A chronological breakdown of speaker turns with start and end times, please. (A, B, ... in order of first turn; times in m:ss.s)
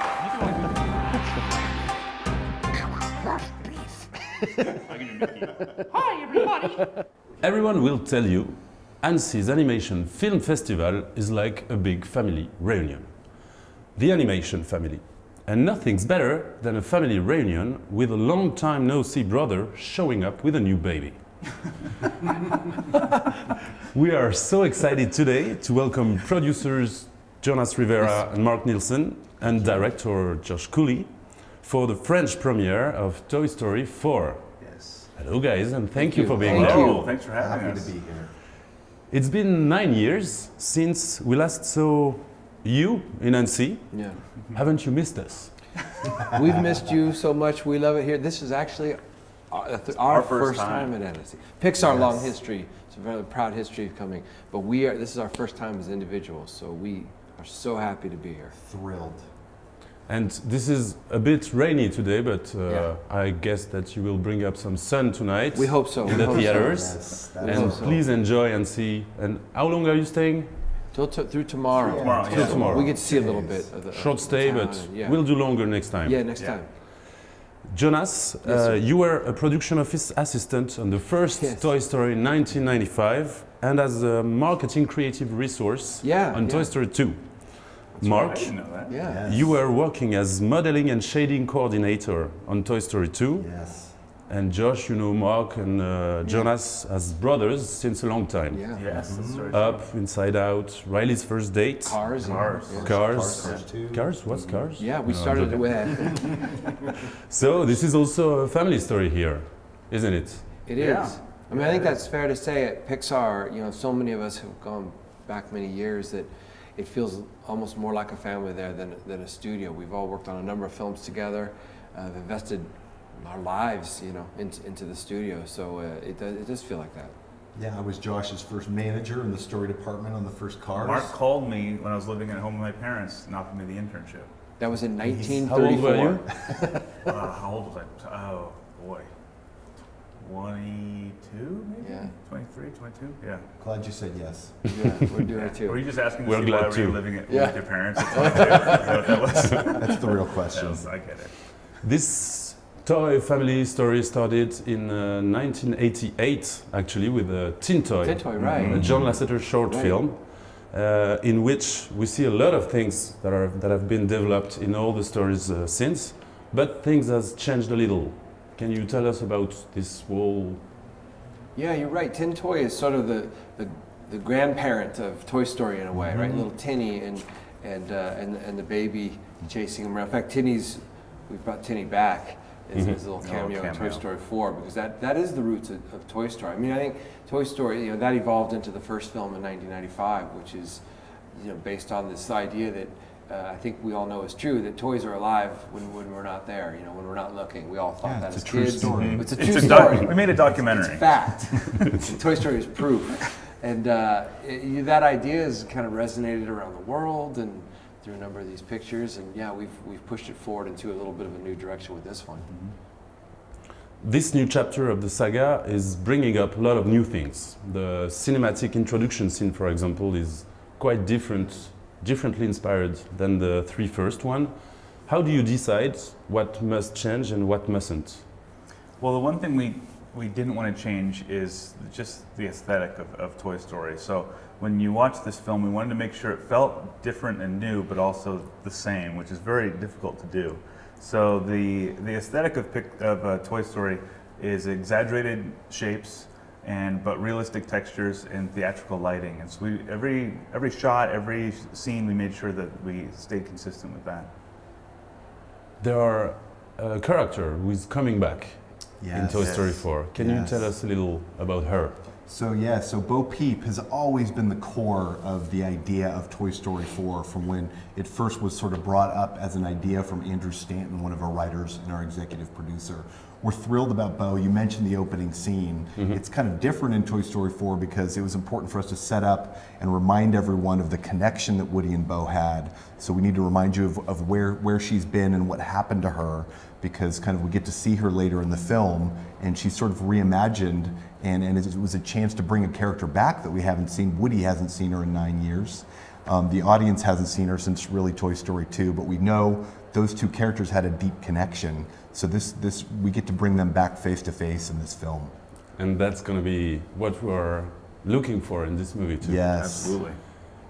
0:04.7-0:06.5 A
0:07.4-0:21.7 B
0:23.8-0:34.5 B
0:34.6-0:35.1 C
0:35.1-0:37.0 B
0:35.9-0:37.1 D
0:36.4-0:37.9 A
0:36.6-0:38.3 C
0:39.1-0:45.6 B
0:43.9-0:44.2 D
0:46.3-0:49.0 D
0:49.5-0:58.5 D
0:50.0-0:50.9 A
0:51.8-0:52.3 C
0:58.5-0:59.2 C
1:00.1-1:10.5 B
1:02.6-1:02.9 D
1:05.5-1:08.0 D
1:06.0-1:08.1 C
1:10.9-1:16.7 D
1:11.7-1:13.7 C
1:11.9-1:12.8 A
1:12.3-1:12.9 B
1:13.9-1:16.2 B
1:16.8-1:42.1 B
1:18.4-1:18.8 D
1:21.3-1:21.7 D
1:26.0-1:26.7 D
1:28.0-1:29.0 A
1:28.9-1:29.3 D
1:29.0-1:29.6 C
1:33.4-1:34.0 C
1:36.2-1:36.5 D
1:38.5-1:38.9 D
1:38.8-1:39.9 A
1:39.0-1:39.6 C
1:41.8-1:42.9 D
1:42.2-1:43.7 A
1:42.3-1:44.1 C
1:42.8-1:46.1 B
1:44.3-1:44.7 A
1:44.8-1:46.8 D
1:47.3-1:50.7 B
1:50.6-2:07.1 D
1:50.8-1:51.9 A
2:07.6-2:11.1 C
2:10.8-2:14.3 A
2:14.6-2:16.9 D
2:15.0-2:15.5 C
2:15.4-2:16.2 B
2:17.0-2:19.1 A
2:20.2-2:23.4 A
2:21.8-2:22.1 D
2:23.6-2:24.7 C
2:24.7-2:25.8 D
2:25.3-2:31.4 A
2:26.2-2:27.2 B
2:27.3-2:29.2 D
2:29.8-2:30.8 C
2:31.6-2:50.6 B
2:38.0-2:38.9 D
2:38.4-2:38.9 A
2:38.7-2:39.3 C
2:39.6-2:40.0 D
2:51.5-3:10.8 D
2:56.1-2:56.4 C
3:03.2-3:04.0 A
3:11.3-3:32.5 D
3:18.0-3:19.3 C
3:18.9-3:21.2 A
3:32.5-3:32.8 A
3:34.0-3:48.2 B
3:49.0-4:14.3 A
4:15.8-4:22.0 B
4:19.0-4:20.7 C
4:19.4-4:19.8 A
4:22.2-5:05.3 C
5:05.8-5:09.6 B
5:09.2-5:10.0 C
5:09.6-5:10.2 A